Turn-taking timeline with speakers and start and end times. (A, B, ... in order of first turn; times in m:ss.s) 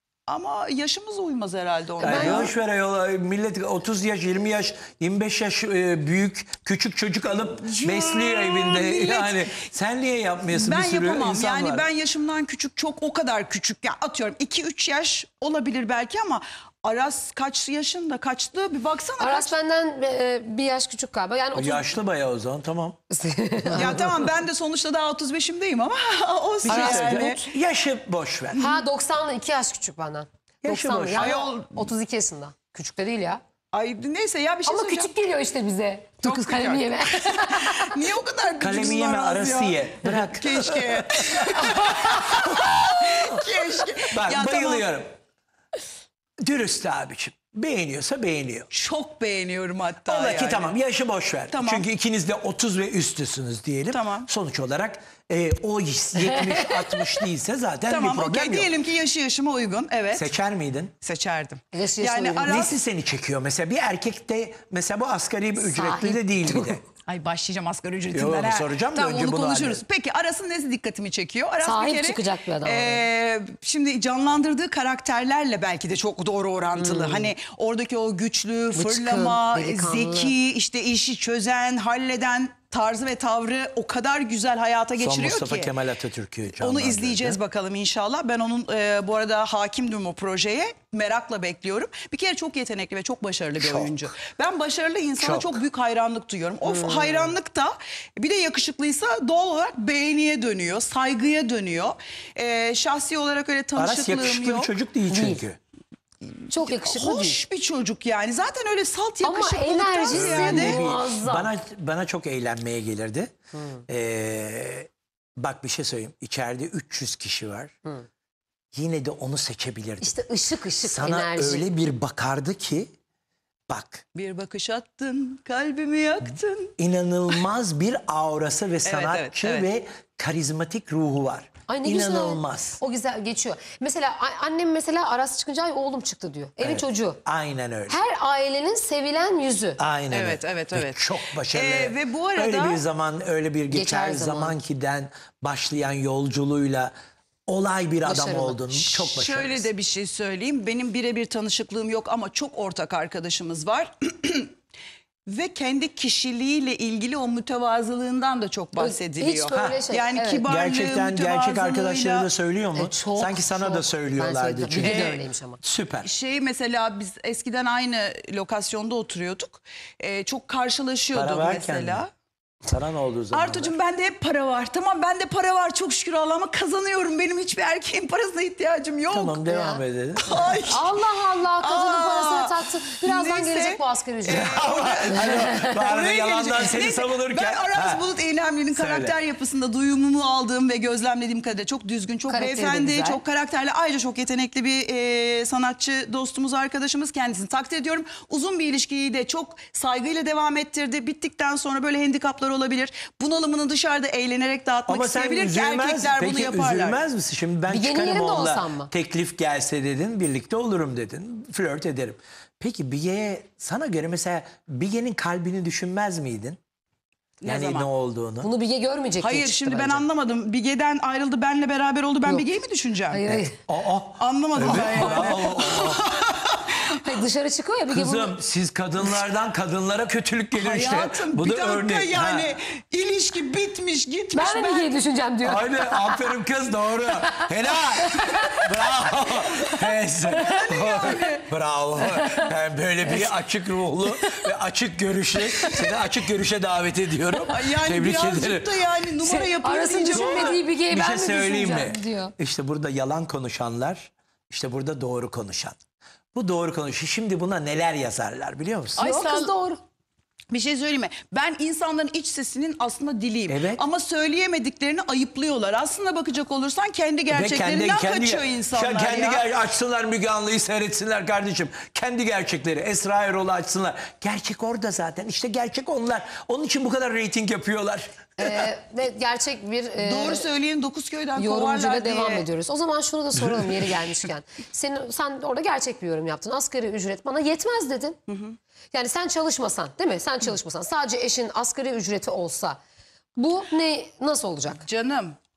0:00.3-0:02.5 A
0:02.0-0:02.5 B
0:02.0-0:11.8 C
0:07.4-0:09.4 A
0:10.5-0:19.5 A
0:19.2-0:21.9 B
0:21.5-0:23.0 C
0:23.1-0:24.1 B
0:23.7-0:24.1 C
0:23.7-0:27.4 A
0:26.6-0:28.6 C
0:26.7-0:27.4 B
0:28.5-0:33.4 B
0:30.6-0:31.3 C
0:31.2-0:31.9 A
0:33.7-0:35.1 A
0:34.6-0:37.9 B
0:36.2-0:44.9 A
0:38.6-0:42.7 C
0:44.1-0:45.1 C
0:46.4-0:48.7 C
0:48.7-0:50.7 A
0:50.0-0:58.7 C
0:51.5-0:51.8 A
0:53.9-0:54.3 A
0:56.2-0:57.2 B
0:57.9-1:00.2 A
1:00.1-1:00.9 C
1:01.0-1:02.8 A
1:01.7-1:02.7 B
1:02.4-1:06.8 C
1:05.6-1:06.8 B
1:07.1-1:25.7 A
1:08.1-1:09.8 C
1:11.6-1:13.0 B
1:16.8-1:17.3 B
1:18.7-1:20.3 B
1:25.0-1:27.4 C
1:26.5-1:44.7 A
1:33.6-1:34.2 C
1:35.2-1:35.6 C
1:36.6-1:37.3 B
1:43.8-1:45.6 C
1:45.1-1:45.4 B
1:46.5-1:47.4 B
1:46.6-1:50.8 A
1:49.2-1:51.5 B
1:50.1-1:53.3 C
1:53.5-1:53.8 B
1:53.9-1:57.7 C
1:58.7-2:00.2 C
2:00.0-2:01.6 B
2:00.8-2:02.9 C
2:03.7-2:04.0 C
2:04.1-2:06.7 A
2:06.8-2:12.8 C
2:08.8-2:09.7 A
2:11.7-2:17.2 B
2:16.6-2:18.0 C
2:17.9-2:19.8 B
2:19.8-2:26.9 C
2:20.1-2:22.8 A
2:23.7-2:24.6 B
2:27.5-2:29.7 C
2:28.0-2:28.6 B
2:28.7-2:34.5 A
2:35.3-2:42.3 A
2:38.8-2:40.4 B
2:39.5-2:39.8 C
2:40.4-2:46.1 C
2:42.8-2:45.6 B
2:44.7-2:45.2 A
2:46.0-2:52.1 A
2:51.1-2:52.0 C
2:52.6-2:53.7 C
2:53.3-2:59.4 A
2:59.1-3:00.6 C
2:59.5-2:59.8 B
3:00.2-3:00.9 A
3:00.7-3:04.6 B
3:01.6-3:27.0 A
3:04.2-3:08.0 C
3:05.1-3:05.6 B
3:08.7-3:09.2 C
3:12.3-3:13.2 B
3:24.9-3:36.6 C
3:27.7-3:28.9 B
3:37.4-3:37.9 A
3:37.4-3:38.5 C
3:38.4-3:40.0 B
3:39.2-3:43.2 A
3:43.1-3:43.5 B
3:43.3-3:46.0 C
3:44.2-3:46.8 A
3:44.6-3:45.6 B
3:47.0-3:48.4 B
3:47.9-3:52.5 C
3:50.5-3:54.9 A
3:54.3-3:56.2 B
3:55.4-4:08.7 C
3:58.0-3:58.4 B
4:00.3-4:00.7 B
4:00.3-4:01.4 A
4:02.0-4:02.4 B
4:04.0-4:04.4 B
4:05.4-4:05.8 B
4:07.4-4:10.6 A
4:09.2-4:12.3 B
4:10.1-4:15.8 C
4:16.3-4:19.0 C
4:18.9-4:19.5 A
4:19.0-4:19.8 B
4:20.5-4:29.4 A
4:23.5-4:23.8 C
4:27.3-4:38.7 C
4:38.4-4:40.5 B
4:40.0-4:42.5 A
4:41.3-4:48.2 B
4:43.4-4:43.9 C
4:48.3-4:48.6 A
4:48.9-4:52.8 B
4:53.4-4:54.8 B
4:54.8-4:55.4 A